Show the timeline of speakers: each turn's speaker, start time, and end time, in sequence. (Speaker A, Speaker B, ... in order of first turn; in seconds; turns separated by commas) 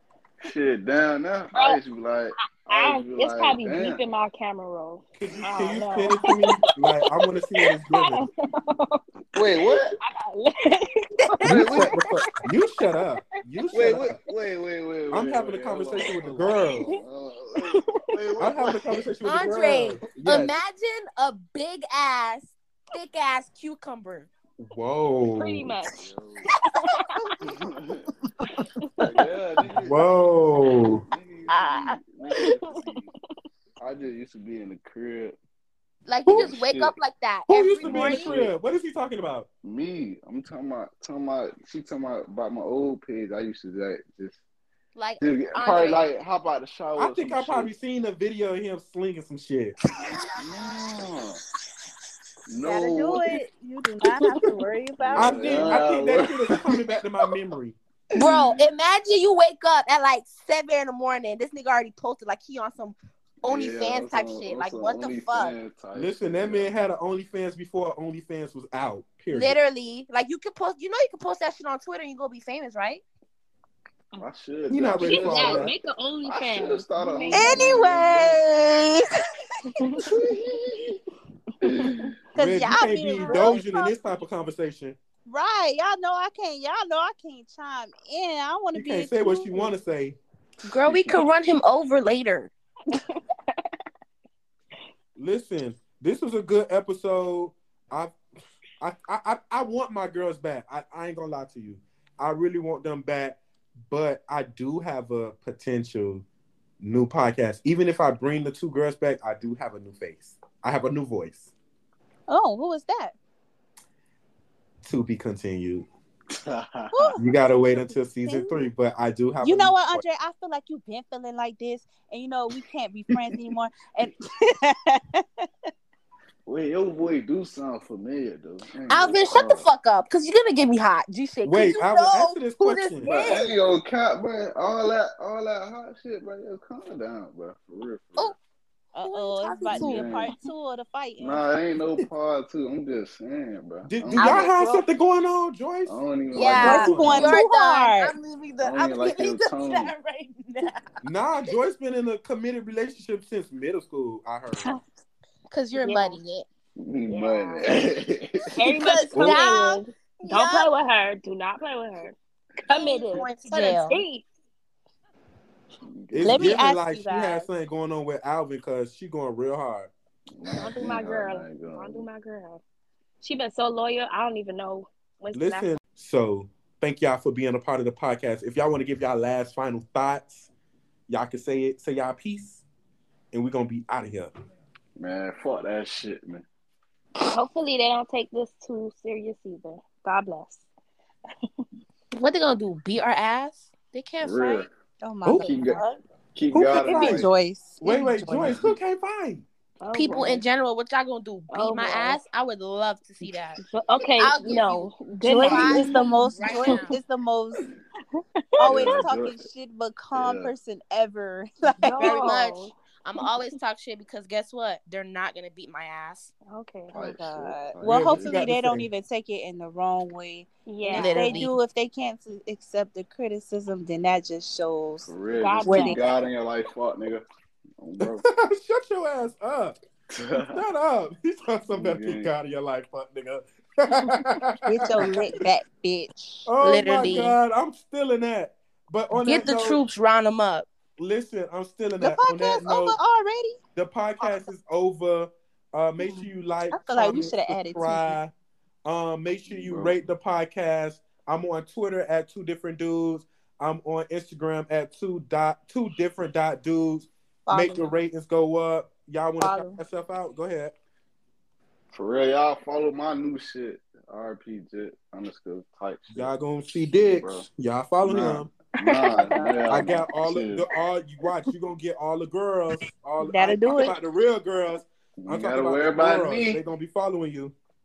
Speaker A: 0.4-4.0, Speaker B: 2.7-6.5, Speaker C: 5.2-8.2, Speaker B: 7.9-9.0, Speaker A: 9.3-10.0, Speaker B: 10.0-11.8, Speaker A: 11.4-11.9, Speaker C: 11.4-14.2, Speaker A: 13.7-18.8, Speaker C: 15.1-16.9, Speaker C: 18.4-20.5, Speaker D: 19.2-24.3, Speaker C: 24.6-25.7, Speaker B: 25.4-26.0, Speaker A: 26.0-26.5, Speaker B: 26.9-27.2, Speaker A: 27.4-28.1, Speaker A: 29.1-30.1, Speaker C: 29.8-31.0, Speaker A: 30.9-33.1, Speaker D: 31.5-32.0, Speaker B: 32.4-32.8, Speaker A: 33.8-35.4, Speaker D: 36.1-38.3, Speaker A: 36.3-37.0, Speaker C: 37.5-39.5, Speaker A: 37.8-38.5, Speaker A: 39.6-44.4, Speaker D: 45.0-46.0, Speaker A: 45.2-47.7, Speaker C: 47.0-49.8, Speaker A: 50.4-51.4, Speaker A: 52.5-53.4, Speaker E: 52.7-55.9, Speaker A: 55.0-56.5, Speaker C: 55.2-57.8, Speaker D: 58.1-65.6, Speaker A: 58.2-58.6, Speaker A: 63.5-66.7, Speaker C: 66.0-69.6, Speaker D: 69.3-73.0, Speaker A: 74.2-75.7, Speaker C: 74.7-75.7, Speaker B: 75.0-78.0, Speaker A: 76.3-78.4, Speaker E: 77.3-79.1, Speaker B: 79.8-80.0, Speaker A: 80.0-81.0, Speaker A: 81.6-82.1, Speaker B: 81.8-82.1, Speaker C: 82.3-85.0, Speaker E: 82.4-84.0, Speaker E: 85.3-89.7, Speaker C: 88.7-90.2, Speaker D: 90.6-92.5, Speaker C: 90.9-91.2, Speaker B: 92.9-93.6, Speaker C: 95.2-98.2, Speaker C: 98.8-103.4, Speaker C: 103.9-106.2, Speaker C: 106.8-111.5, Speaker E: 112.3-113.2, Speaker C: 114.8-115.9, Speaker A: 116.3-117.2, Speaker E: 116.9-118.7, Speaker C: 117.2-120.0, Speaker E: 119.4-125.5, Speaker A: 126.5-129.7, Speaker D: 128.9-133.5, Speaker C: 131.4-133.1, Speaker A: 133.0-138.3, Speaker D: 138.9-140.2, Speaker E: 139.0-141.4, Speaker A: 139.7-140.3, Speaker A: 141.2-144.5, Speaker C: 143.9-147.4, Speaker D: 144.2-144.8, Speaker A: 145.9-147.3, Speaker D: 146.3-150.9, Speaker E: 146.6-148.2, Speaker A: 148.6-149.9, Speaker C: 151.0-154.7, Speaker D: 155.5-156.5, Speaker B: 155.8-156.2, Speaker A: 156.8-158.5, Speaker B: 157.1-157.7, Speaker B: 158.5-162.2, Speaker D: 158.6-160.7, Speaker A: 159.1-159.4, Speaker B: 162.7-164.2, Speaker D: 162.7-164.0, Speaker A: 165.8-166.6, Speaker C: 166.1-169.9, Speaker E: 166.2-167.5, Speaker A: 170.3-172.1, Speaker B: 170.6-172.6, Speaker B: 173.2-175.7, Speaker C: 175.3-180.5, Speaker C: 181.1-182.6, Speaker C: 183.3-184.3, Speaker A: 185.0-186.4, Speaker B: 187.3-190.7, Speaker D: 192.1-194.7, Speaker A: 194.2-194.7, Speaker E: 195.0-196.0, Speaker C: 195.2-195.5, Speaker A: 195.3-195.8, Speaker A: 196.3-197.3, Speaker E: 196.5-198.6, Speaker C: 197.8-199.5, Speaker A: 198.4-198.7, Speaker B: 199.8-200.4, Speaker D: 199.9-203.6, Speaker B: 201.5-202.2, Speaker B: 203.2-206.8, Speaker D: 204.2-207.0, Speaker E: 205.2-207.7, Speaker B: 208.2-209.0, Speaker E: 208.6-212.3, Speaker A: 208.6-209.4, Speaker A: 210.1-210.5, Speaker B: 211.8-213.3, Speaker D: 212.0-216.3, Speaker B: 216.5-216.9, Speaker E: 216.9-225.1, Speaker A: 216.9-218.5, Speaker C: 217.8-218.9, Speaker B: 220.7-221.6, Speaker D: 220.9-221.6, Speaker A: 225.1-227.2, Speaker B: 225.4-226.0, Speaker E: 225.7-226.0, Speaker A: 227.8-228.2, Speaker C: 228.0-229.8, Speaker A: 230.1-230.6, Speaker C: 230.5-235.1, Speaker A: 231.7-232.3, Speaker E: 234.7-237.3, Speaker C: 236.5-239.8, Speaker D: 236.6-237.4, Speaker D: 239.2-240.7, Speaker C: 241.0-243.0, Speaker E: 242.0-243.6, Speaker C: 243.8-248.3, Speaker E: 246.0-248.2, Speaker C: 248.8-260.7, Speaker A: 249.5-250.1, Speaker E: 257.5-257.9, Speaker E: 259.4-259.8, Speaker A: 261.9-266.3, Speaker C: 266.1-268.5, Speaker A: 266.9-267.5, Speaker A: 268.0-270.6, Speaker B: 268.8-269.4, Speaker E: 269.2-269.7, Speaker C: 269.7-277.5, Speaker E: 273.2-273.9, Speaker A: 275.2-276.6